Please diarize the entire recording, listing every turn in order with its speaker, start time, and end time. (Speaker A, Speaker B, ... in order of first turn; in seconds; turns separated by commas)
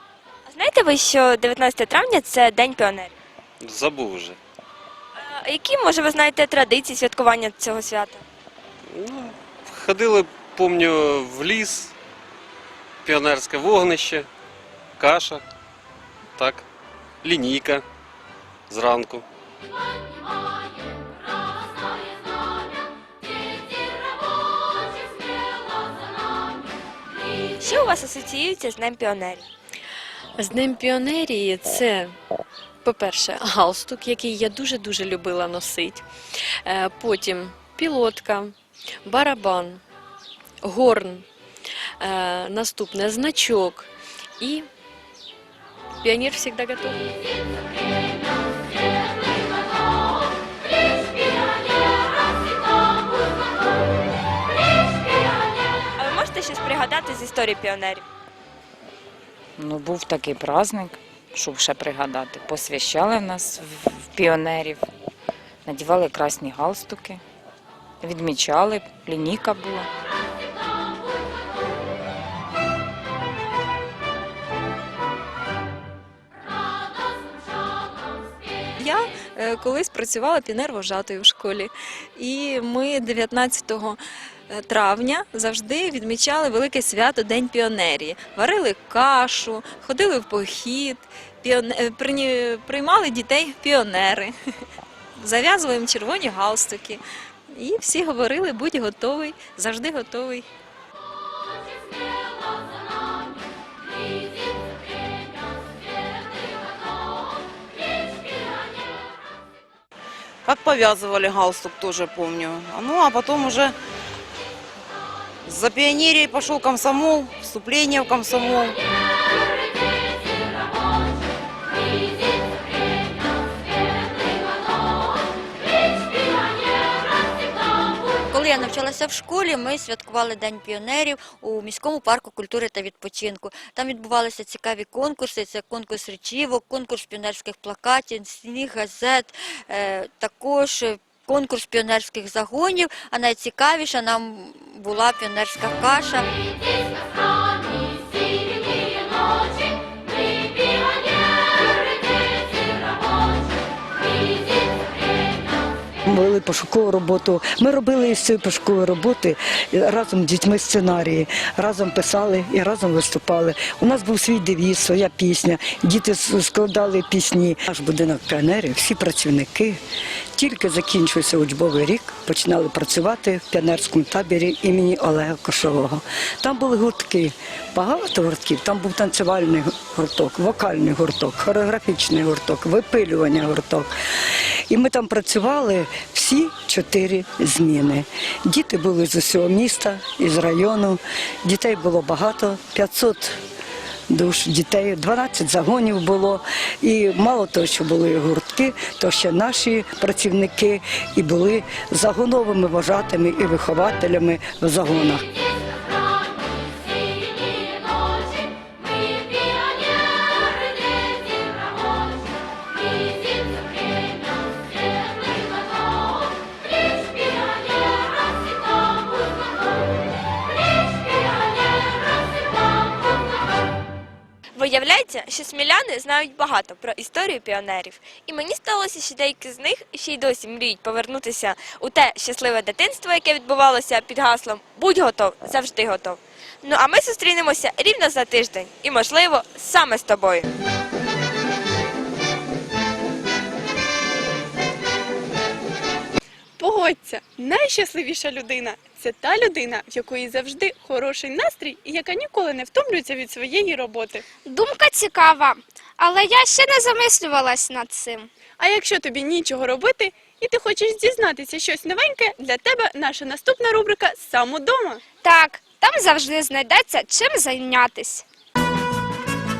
Speaker A: 0.5-3.1, Speaker B: 3.6-4.4, Speaker A: 5.2-8.2, Speaker B: 8.9-11.9, Speaker B: 13.0-14.3, Speaker B: 15.0-15.4, Speaker B: 16.4-16.6, Speaker B: 17.2-17.8, Speaker B: 18.7-19.2, Speaker A: 27.6-29.5, Speaker C: 30.4-32.0, Speaker C: 32.9-36.0, Speaker C: 37.0-38.5, Speaker C: 39.1-39.8, Speaker C: 40.6-41.2, Speaker C: 42.1-43.9, Speaker C: 44.4-44.6, Speaker A: 56.0-58.0, Speaker D: 59.6-64.9, Speaker D: 65.7-67.2, Speaker D: 68.0-69.9, Speaker E: 78.9-84.0, Speaker E: 84.5-94.3, Speaker E: 95.2-97.0, Speaker E: 97.6-100.4, Speaker F: 110.6-112.9, Speaker F: 115.5-118.6, Speaker G: 128.2-146.2, Speaker H: 156.1-169.8, Speaker H: 170.3-183.9, Speaker H: 184.7-193.4, Speaker H: 194.1-205.2, Speaker A: 224.6-240.5, Speaker I: 246.6-254.2, Speaker J: 254.4-258.3, Speaker I: 258.6-265.0, Speaker J: 265.2-268.2